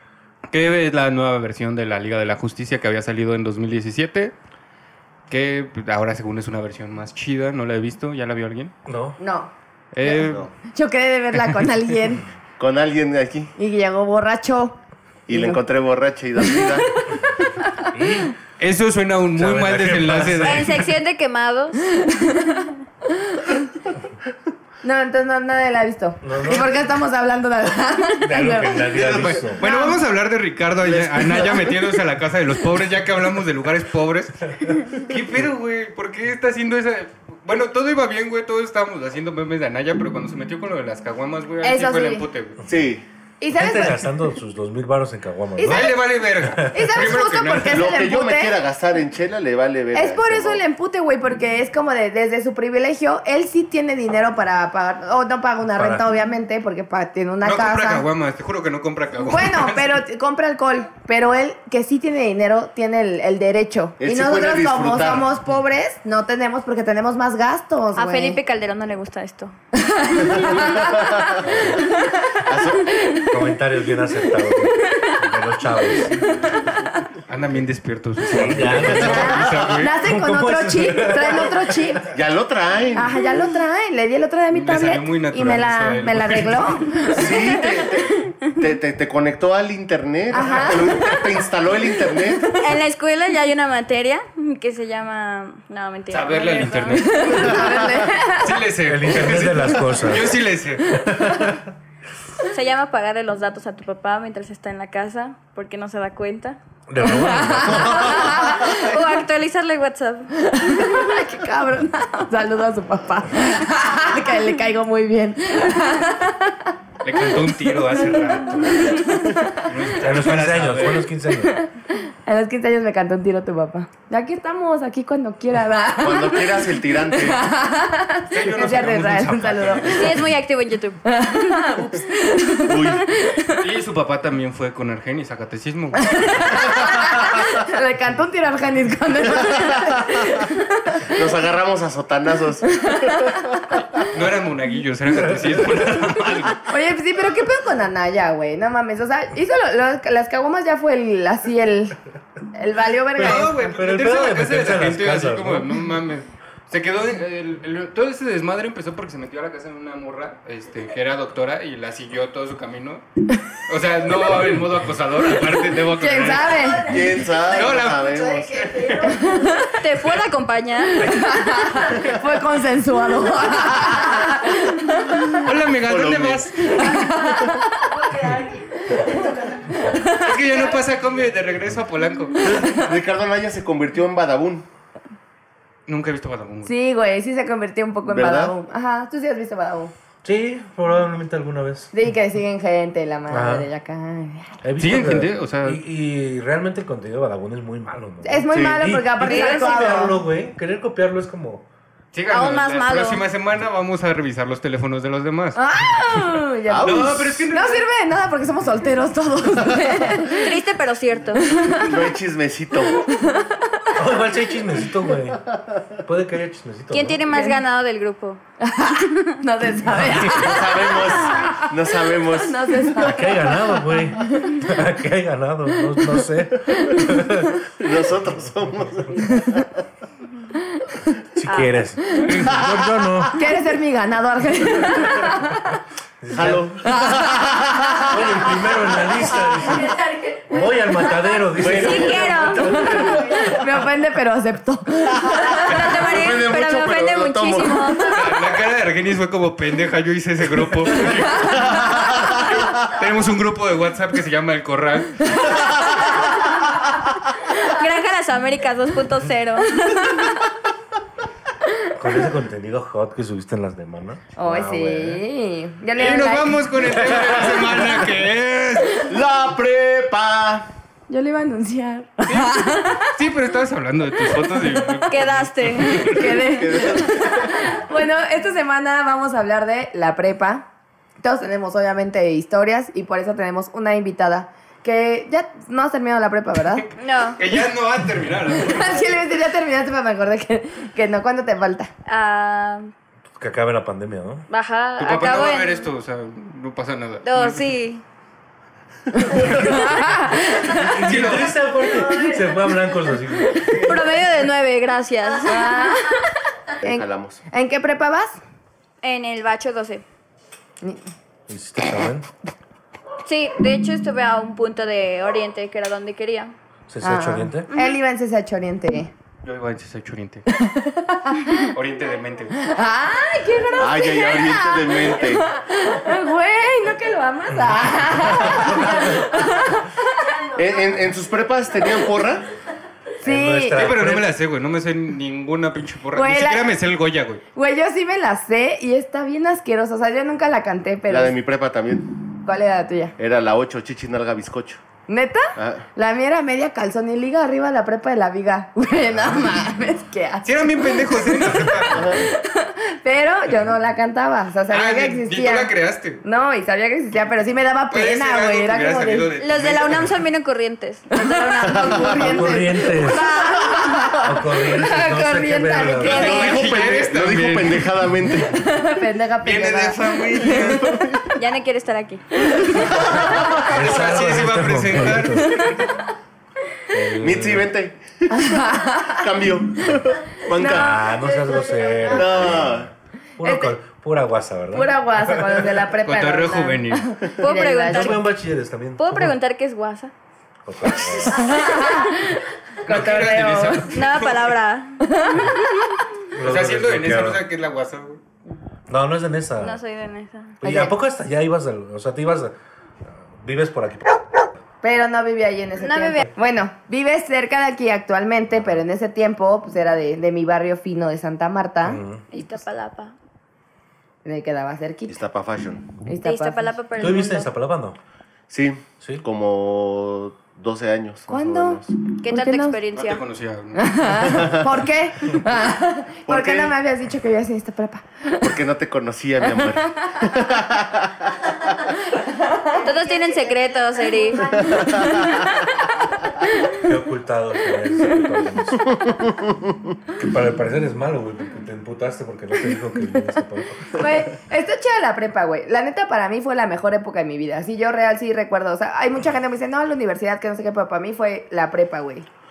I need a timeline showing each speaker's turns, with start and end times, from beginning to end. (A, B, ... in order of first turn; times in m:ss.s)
0:00.5-0:04.3 A
0:05.3-0:08.7 A
0:08.9-0:09.2 B
0:09.2-0:09.5 C
0:09.9-0:10.5 A
0:10.0-0:12.3 C
0:10.1-0:10.5 D
0:12.6-0:13.5 D
0:13.6-0:14.8 C
0:15.3-0:17.2 D
0:15.3-0:15.6 C
0:16.5-0:16.7 C
0:17.9-0:18.3 B
0:18.6-0:20.9 A
0:19.3-0:20.9 B
0:20.4-0:21.8 E
0:22.0-0:22.6 C
0:24.8-0:29.0 C
0:26.2-0:26.9 B
0:28.2-0:29.6 B
0:28.9-0:29.6 D
0:29.6-0:42.6 A
0:29.6-0:30.0 C
0:30.8-0:31.8 D
0:41.6-0:42.3 C
0:42.7-0:43.0 D
0:43.4-0:44.1 C
0:43.5-0:46.9 B
0:45.6-0:46.0 C
0:45.6-0:47.9 A
0:46.7-0:48.6 C
0:47.7-0:50.6 D
0:49.9-0:58.1 C
0:55.8-0:56.1 B
0:57.4-1:00.0 A
0:59.2-1:08.4 C
1:04.0-1:05.3 D
1:08.0-1:09.6 E
1:09.8-1:11.3 C
1:10.2-1:11.5 D
1:11.4-1:11.8 B
1:12.4-1:12.9 D
1:13.3-1:16.6 B
1:17.3-1:19.9 A
1:18.3-1:22.1 B
1:18.6-1:18.9 D
1:18.9-1:22.1 C
1:22.1-1:23.2 D
1:23.0-1:27.6 C
1:24.5-1:27.0 A
1:27.1-1:32.6 D
1:30.3-1:31.1 C
1:32.6-1:37.9 E
1:36.1-1:37.5 A
1:37.0-1:38.6 C
1:38.4-1:40.9 A
1:38.8-1:41.7 B
1:41.0-1:41.5 C
1:42.5-1:46.6 E
1:46.9-1:48.3 B
1:47.0-1:48.8 C
1:48.1-1:51.1 E
1:50.5-1:56.7 C
1:57.0-2:01.1 A
1:57.7-1:59.7 C
2:00.0-2:01.6 B
2:01.4-2:10.2 C
2:06.0-2:07.5 D
2:08.3-2:10.3 A
2:08.8-2:09.7 B
2:09.9-2:11.8 E
2:11.1-2:13.7 C
2:12.7-2:13.1 D
2:13.6-2:16.6 A
2:16.0-2:21.2 C
2:19.4-2:20.2 D
2:21.1-2:23.5 D
2:22.7-2:23.4 C
2:24.0-2:26.6 A
2:25.1-2:26.2 B
2:26.7-2:32.0 C
2:32.5-2:33.5 C
2:33.2-2:35.8 B
2:33.2-2:49.1 A
2:45.9-2:46.9 C
2:46.8-2:48.6 D
2:49.0-2:49.8 C
2:49.6-2:52.0 E
2:51.0-2:55.4 C
2:55.4-2:57.0 A
2:55.8-2:56.6 D
2:56.6-3:00.6 C
2:57.0-2:58.2 E
3:00.2-3:02.7 A
3:02.4-3:04.7 D
3:02.5-3:02.8 C
3:05.9-3:06.7 A
3:06.6-3:09.9 C
3:08.1-3:08.6 D
3:10.2-3:11.9 B
3:11.9-3:14.5 C
3:13.3-3:13.7 B
3:14.6-3:21.7 B
3:14.8-3:15.8 A
3:18.2-3:20.2 C
3:18.5-3:18.8 D
3:19.3-3:20.0 E
3:22.1-3:25.6 A
3:22.3-3:23.2 E
3:25.6-3:30.6 C
3:26.7-3:27.4 D
3:26.8-3:27.9 A
3:30.3-3:31.7 E
3:31.4-3:32.1 C
3:31.7-3:33.1 D
3:32.9-3:33.9 C
3:34.0-3:35.4 B
3:35.5-3:35.8 D
3:36.0-3:37.2 B
3:36.9-3:38.4 E
3:37.3-3:37.6 C
3:38.6-3:41.7 C
3:39.0-3:39.4 E
3:39.9-3:40.5 B
3:40.3-3:43.2 D
3:42.3-3:44.6 C
3:43.0-3:47.7 B
3:46.8-3:47.2 C
3:47.8-3:49.8 D
3:51.4-3:53.4 B
3:51.5-3:51.8 E
3:52.2-3:52.6 A
3:52.4-3:52.8 D
3:53.3-3:55.7 C
3:56.2-3:57.0 B
3:56.3-3:58.7 D
3:56.8-3:58.1 C
3:58.1-4:02.8 B
4:00.5-4:01.3 C
4:01.6-4:03.5 D
4:01.7-4:03.4 E
4:02.8-4:05.8 C
4:05.3-4:08.0 D
4:05.5-4:08.3 E
4:08.1-4:11.8 A
4:11.4-4:12.8 D
4:12.8-4:15.6 A
4:17.5-4:20.4 E
4:22.0-4:25.2 B
4:24.4-4:26.6 C
4:26.0-4:29.0 A
4:26.9-4:27.9 B
4:29.0-4:30.7 D
4:31.1-4:33.1 C
4:32.3-4:36.4 A
4:35.1-4:36.4 E
4:35.9-4:40.7 C
4:36.5-4:37.6 D
4:41.2-4:46.9 C
4:47.0-4:47.4 E
4:47.4-4:49.1 A
4:48.6-4:51.9 C
4:52.1-4:52.9 E
4:53.4-4:54.5 B
4:54.5-4:55.9 E
4:55.0-4:57.7 A
4:57.2-4:58.0 E
4:59.1-5:00.9 C
4:59.3-4:59.9 A
5:00.6-5:03.9 B
5:01.0-5:01.6 A
5:01.9-5:02.6 C
5:03.7-5:06.1 E
5:05.4-5:08.4 C
5:06.8-5:07.4 D
5:09.0-5:10.0 E
5:11.5-5:12.3 B
5:13.2-5:16.5 E
5:16.9-5:17.7 B
5:17.0-5:19.1 C
5:17.7-5:18.0 E
5:19.4-5:20.5 A
5:20.5-5:21.7 C
5:21.7-5:22.6 A
5:22.6-5:31.0 C
5:23.8-5:25.5 D
5:28.1-5:29.4 B
5:30.6-5:32.5 D
5:33.2-5:33.8 C
5:33.2-5:34.3 B
5:33.8-5:37.4 A
5:36.1-5:36.7 C
5:37.6-5:41.4 C
5:41.1-5:42.1 D
5:42.4-5:43.1 C
5:43.2-5:44.8 D
5:45.1-5:55.7 C
5:45.6-5:45.9 D
5:49.1-5:49.4 B
5:50.4-5:52.2 A
5:51.9-5:52.3 D
5:54.7-5:56.2 A
5:56.2-5:59.3 C
5:57.9-6:00.2 A
5:59.4-6:02.3 E
6:01.1-6:06.3 C
6:01.7-6:02.4 D
6:02.2-6:03.3 B
6:03.0-6:04.1 E
6:04.2-6:06.3 B
6:06.0-6:07.9 A
6:06.0-6:08.6 D
6:06.2-6:06.5 E
6:08.5-6:11.2 C
6:09.4-6:11.1 A
6:11.4-6:12.7 E
6:12.5-6:13.7 C
6:12.8-6:13.2 D
6:12.8-6:15.7 B
6:13.6-6:15.6 A
6:16.9-6:17.7 B
6:17.2-6:21.0 D
6:18.3-6:19.3 C
6:20.5-6:22.3 C
6:20.6-6:25.7 B
6:22.1-6:22.9 D
6:23.4-6:23.8 C
6:24.7-6:28.2 C
6:26.1-6:27.3 A
6:27.2-6:28.3 E
6:27.9-6:29.4 B
6:29.0-6:30.1 E
6:30.6-6:31.6 B
6:31.3-6:33.9 C
6:32.9-6:34.6 A
6:33.9-6:36.0 E
6:35.1-6:35.5 C
6:36.3-6:37.4 B
6:36.4-6:38.2 A
6:38.9-6:39.8 B
6:39.6-6:40.6 E
6:40.6-6:42.6 B
6:40.6-6:40.9 C
6:43.1-6:44.4 B
6:44.8-6:52.6 C
6:45.8-6:46.2 E
6:51.8-6:52.2 B
6:52.3-6:53.2 E
6:54.2-6:55.2 C
6:55.1-6:56.0 D
6:56.0-6:56.8 C
6:56.2-6:57.5 E
6:57.0-6:58.0 B
6:58.5-7:01.9 D
7:01.3-7:02.8 C
7:02.2-7:03.2 E
7:02.9-7:04.5 A
7:03.8-7:08.6 C
7:04.2-7:04.7 D
7:06.3-7:06.8 D
7:08.4-7:11.5 D
7:09.4-7:10.4 C
7:12.1-7:15.4 C
7:12.8-7:15.3 E
7:14.6-7:15.4 D
7:16.4-7:16.8 C
7:16.8-7:18.8 B
7:19.0-7:19.7 D
7:20.2-7:24.1 B
7:24.0-7:32.3 C